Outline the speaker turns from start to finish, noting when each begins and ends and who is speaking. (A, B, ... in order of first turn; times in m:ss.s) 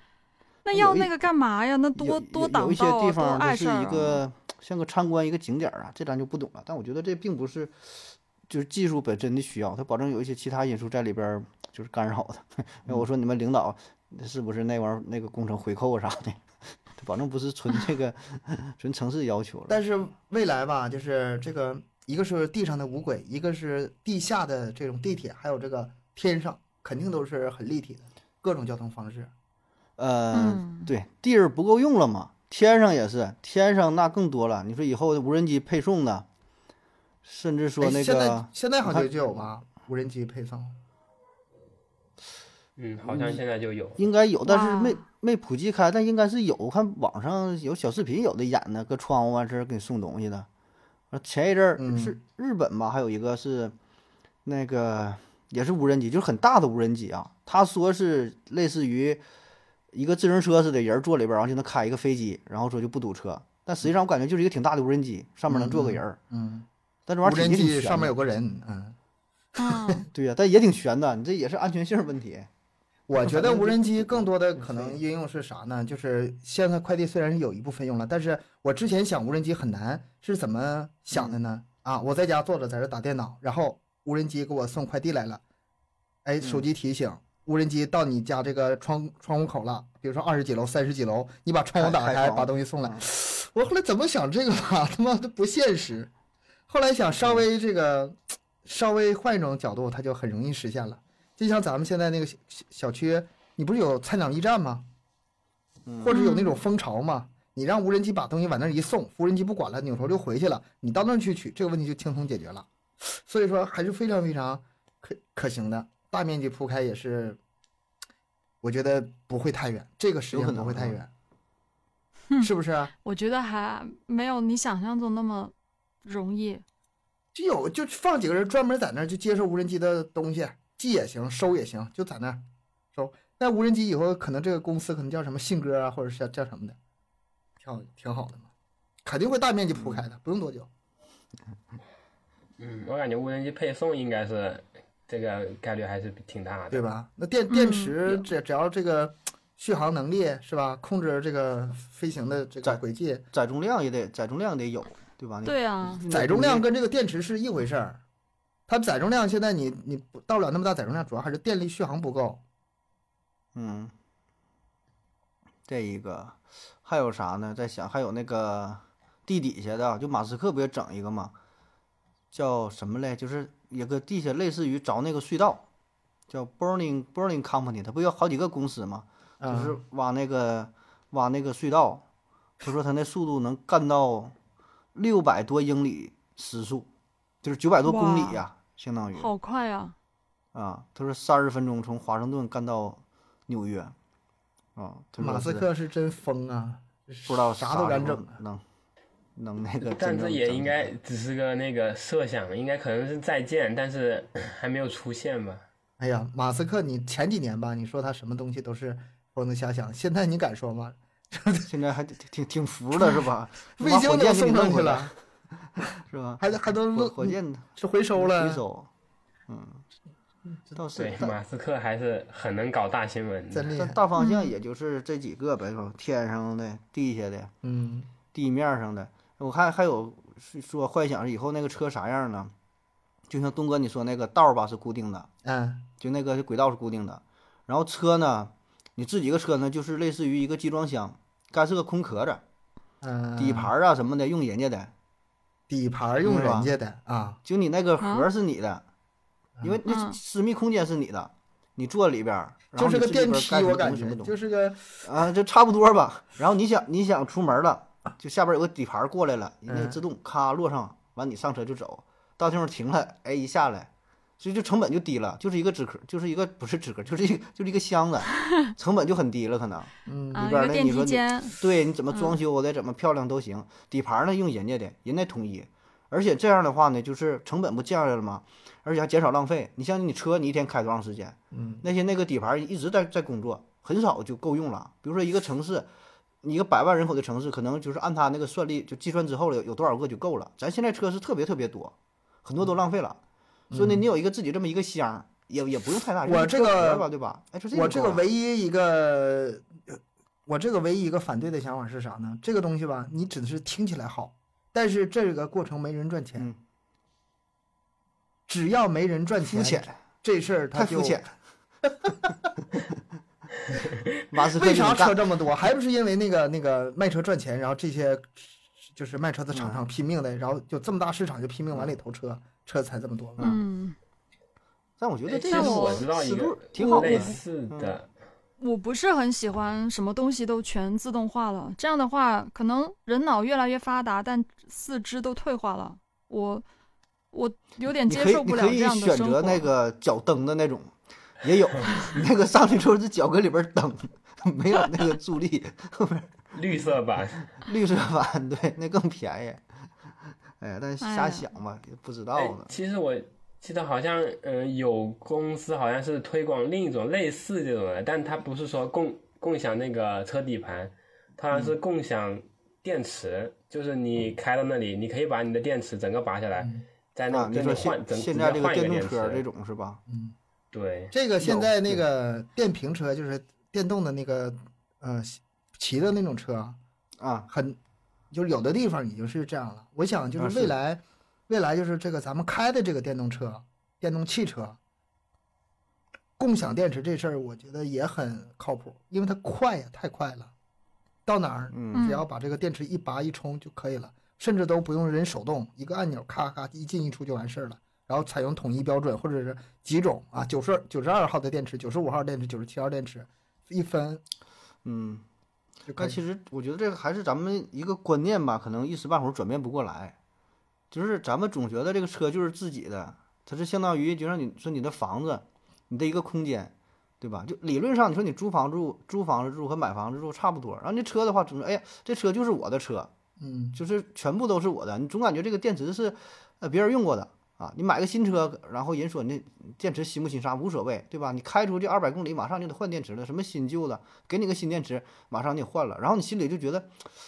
0:00.6-0:04.2 A
0:00.7-0:01.1 B
0:01.9-0:19.8 B
0:19.7-0:29.3 C
0:30.0-0:36.2 B
0:30.3-0:30.9 A
0:37.2-0:39.1 B
0:37.8-0:40.7 C
0:42.8-0:44.0 D
0:43.1-0:43.4 B
0:44.0-0:50.5 B
0:44.4-0:45.0 A
0:51.1-0:53.7 B
0:51.8-0:52.2 C
0:54.4-0:59.2 B
0:59.9-1:06.2 B
1:05.5-1:06.7 C
1:07.1-1:08.1 B
1:07.2-1:09.0 C
1:09.6-1:10.1 A
1:10.1-1:12.5 B
1:13.1-1:25.4 C
1:13.2-1:15.0 B
1:21.1-1:21.4 B
1:26.2-1:36.1 C
1:26.4-1:26.6 B
1:31.8-1:33.0 B
1:36.7-1:44.8 C
1:37.2-1:37.4 B
1:45.8-1:46.2 B
1:46.0-1:57.4 C
1:46.1-1:46.6 A
1:58.6-2:01.1 C
2:00.3-2:01.0 B
2:02.4-2:02.9 C
2:03.0-2:06.6 A
2:07.3-2:12.4 C
2:12.9-2:16.8 C
2:17.6-2:18.5 C
2:19.0-2:20.7 C
2:19.8-2:20.0 B
2:22.6-2:26.8 D
2:26.7-2:33.2 C
2:27.5-2:28.0 A
2:32.6-2:36.7 B
2:35.4-2:36.0 A
2:36.1-2:38.0 C
2:38.7-2:42.4 C
2:43.5-2:43.9 B
2:45.7-2:51.3 B
2:52.3-2:55.6 B
2:56.3-3:02.0 B
2:59.4-2:59.8 C
3:02.6-3:04.3 B
3:04.9-3:06.9 B
3:07.4-3:09.3 B
3:07.8-3:08.4 A
3:09.1-3:09.9 A
3:10.5-3:13.9 B
3:14.8-3:15.7 B
3:15.2-3:18.4 C
3:17.3-3:18.6 B
3:19.4-3:20.9 B
3:19.8-3:25.6 D
3:26.0-3:31.7 C
3:31.7-3:35.1 B
3:33.7-3:35.1 C
3:36.0-3:38.9 B
3:36.4-3:38.6 C
3:39.5-3:39.8 B
3:40.7-3:41.4 B
3:40.9-3:43.7 D
3:43.5-3:44.0 C
3:43.7-3:47.5 B
3:44.2-3:44.5 A
3:47.6-3:48.1 C
3:48.3-3:52.5 B
3:53.3-3:55.3 B
3:55.4-3:55.8 C
3:56.0-4:02.4 B
4:03.0-4:03.7 C
4:03.4-4:04.9 B
4:05.7-4:07.4 C
4:06.2-4:06.7 B
4:07.4-4:08.8 B
4:08.0-4:08.3 A
4:09.6-4:14.3 B
4:09.9-4:10.2 A
4:12.8-4:15.0 C
4:15.0-4:45.9 B
4:19.7-4:20.0 C
4:30.1-4:30.5 C
4:30.3-4:31.6 A
4:41.5-4:41.8 C
4:46.4-4:53.2 B
4:53.7-4:54.0 C
4:53.7-4:58.2 B
4:56.2-4:57.1 C
4:57.7-5:06.5 C
5:08.5-5:11.2 C
5:09.4-5:09.9 B
5:10.7-5:11.3 B
5:11.9-5:12.2 C
5:14.3-5:15.4 B
5:14.5-5:23.5 C
5:19.5-5:19.8 B
5:21.7-5:22.0 B
5:23.4-5:23.9 A
5:25.0-5:28.0 B
5:25.4-5:28.1 D
5:25.5-5:26.0 A
5:26.8-5:27.4 A
5:28.6-5:36.6 A
5:37.3-5:39.7 A
5:38.1-5:46.3 B
5:46.5-5:47.5 D
5:47.6-5:52.7 B
5:51.0-5:51.4 A
5:52.4-6:09.4 D
6:06.6-6:06.8 C
6:07.3-6:10.0 B
6:10.1-6:10.3 C
6:10.7-6:11.1 D
6:11.1-6:16.8 C
6:11.4-6:12.0 B
6:17.2-6:17.5 B
6:17.5-6:17.8 C
6:18.3-6:24.8 C
6:20.4-6:20.7 B
6:26.4-6:30.5 C
6:31.2-6:44.2 C
6:31.7-6:32.1 B
6:31.9-6:32.2 A
6:44.8-6:45.2 B
6:45.9-6:46.2 C
6:45.9-6:50.2 B
6:50.9-7:03.1 B
7:03.4-7:03.8 C
7:03.7-7:16.9 B